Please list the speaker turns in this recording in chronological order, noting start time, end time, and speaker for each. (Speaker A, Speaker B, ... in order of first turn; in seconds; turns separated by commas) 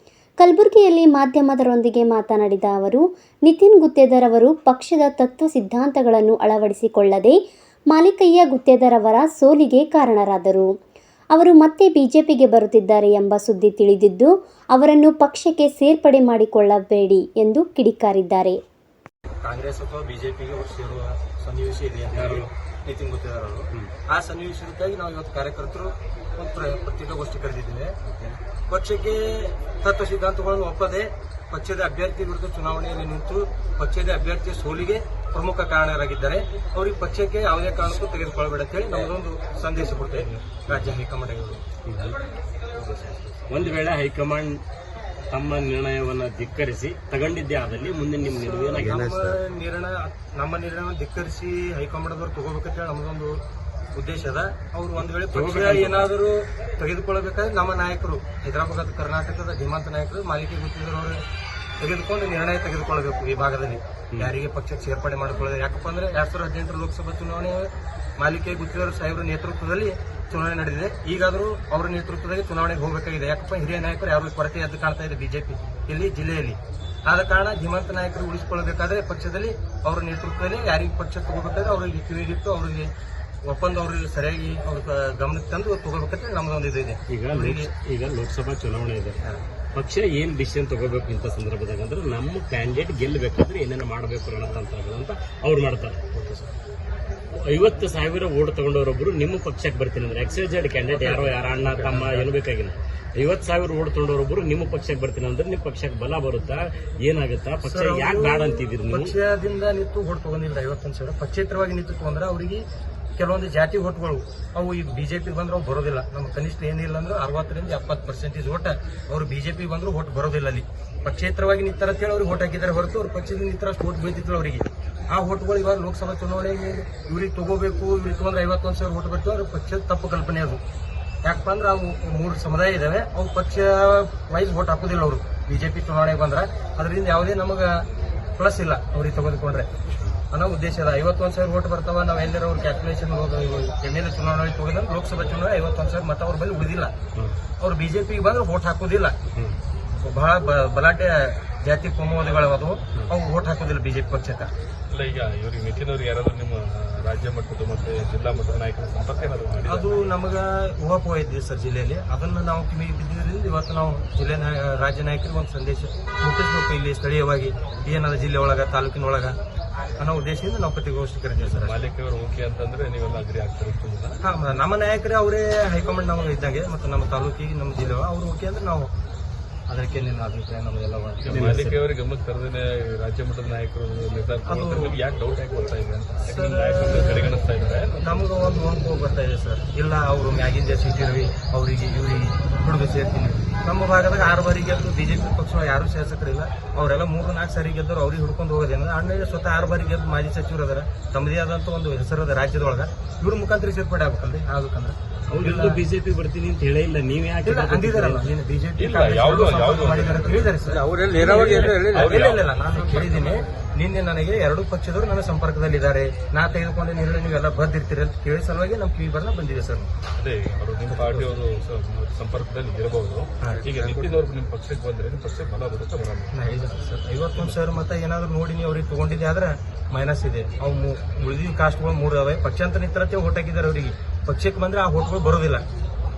Speaker A: 0.4-7.4, Speaker A: 7.9-10.7, Speaker A: 11.3-18.6, Speaker B: 19.4-28.0, Speaker C: 22.1-22.5, Speaker C: 28.1-28.4, Speaker B: 28.7-41.6, Speaker C: 40.7-41.0, Speaker C: 41.9-42.2, Speaker B: 42.8-43.2, Speaker C: 43.5-44.6, Speaker C: 45.3-49.4, Speaker B: 48.3-53.4, Speaker B: 53.9-61.2, Speaker C: 55.3-56.1, Speaker B: 61.8-82.9, Speaker B: 83.4-87.7, Speaker C: 87.1-89.2, Speaker C: 89.8-96.0, Speaker B: 96.1-96.5, Speaker C: 97.4-109.2, Speaker B: 100.9-102.3, Speaker B: 107.7-112.7, Speaker B: 113.2-130.6, Speaker B: 131.2-137.8, Speaker B: 138.4-139.7, Speaker B: 140.3-146.9, Speaker B: 147.6-149.2, Speaker B: 150.0-154.5, Speaker D: 154.9-159.9, Speaker B: 159.7-169.3, Speaker B: 170.0-171.8, Speaker D: 171.4-174.2, Speaker B: 174.2-178.9, Speaker B: 179.7-181.5, Speaker D: 181.2-188.1, Speaker C: 181.3-181.8, Speaker B: 184.5-184.9, Speaker B: 186.2-187.0, Speaker B: 188.0-205.8, Speaker C: 205.3-208.3, Speaker B: 207.4-219.9, Speaker D: 208.8-210.6, Speaker C: 210.9-212.0, Speaker D: 211.1-213.4, Speaker D: 220.2-226.8, Speaker B: 220.9-221.4, Speaker B: 223.4-224.2, Speaker B: 226.3-235.7